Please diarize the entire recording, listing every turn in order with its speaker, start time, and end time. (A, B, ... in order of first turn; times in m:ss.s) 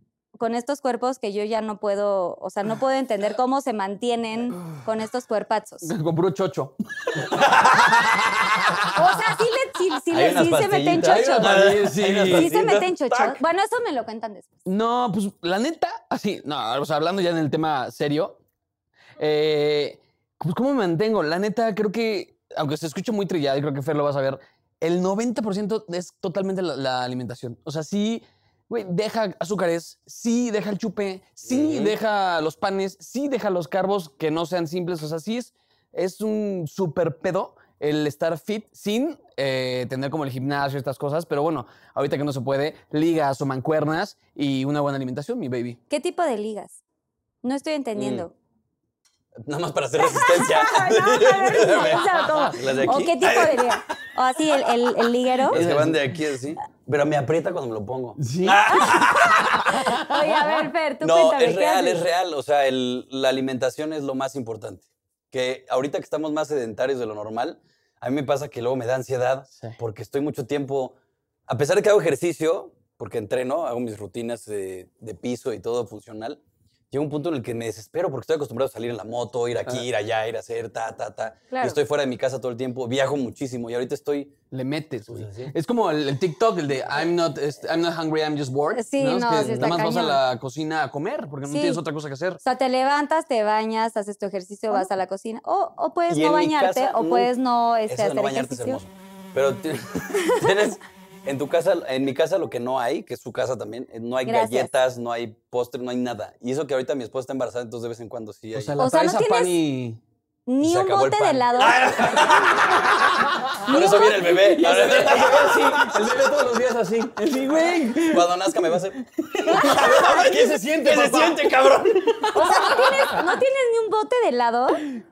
0:00.4-0:05.9 A
0:05.8-0:08.9 B
0:07.4-0:08.0 C
0:08.9-0:11.7 A
0:10.1-0:13.4 C
0:11.0-0:12.5 B
0:12.3-0:14.5 A
0:14.7-0:18.4 B
0:19.2-0:45.8 B
0:31.4-0:32.0 C
0:45.9-0:46.8 A
0:47.4-0:48.3 A
0:48.0-0:48.3 C
0:49.4-0:53.8 C
0:50.0-0:55.6 A
0:55.5-0:56.1 B
0:55.5-0:59.8 C
0:58.2-1:00.6 B
0:58.7-0:59.0 A
0:59.7-1:02.0 A
1:01.0-1:11.0 C
1:09.5-1:09.8 B
1:11.5-1:16.4 C
1:16.9-1:24.4 C
1:21.5-1:21.8 A
1:24.5-1:32.4 B
1:25.1-1:25.5 C
1:28.7-1:30.2 A
1:29.4-1:29.8 C
1:31.5-1:31.8 A
1:32.4-1:38.8 A
1:36.1-1:37.3 C
1:37.9-1:48.8 C
1:44.2-1:44.7 A
1:48.6-1:50.0 B
1:48.8-1:49.6 A
1:50.5-1:51.8 A
1:50.6-1:56.3 C
1:53.2-1:58.4 B
1:53.6-1:54.4 A
1:58.0-2:02.5 C
1:59.2-2:03.2 B
2:02.4-2:04.8 A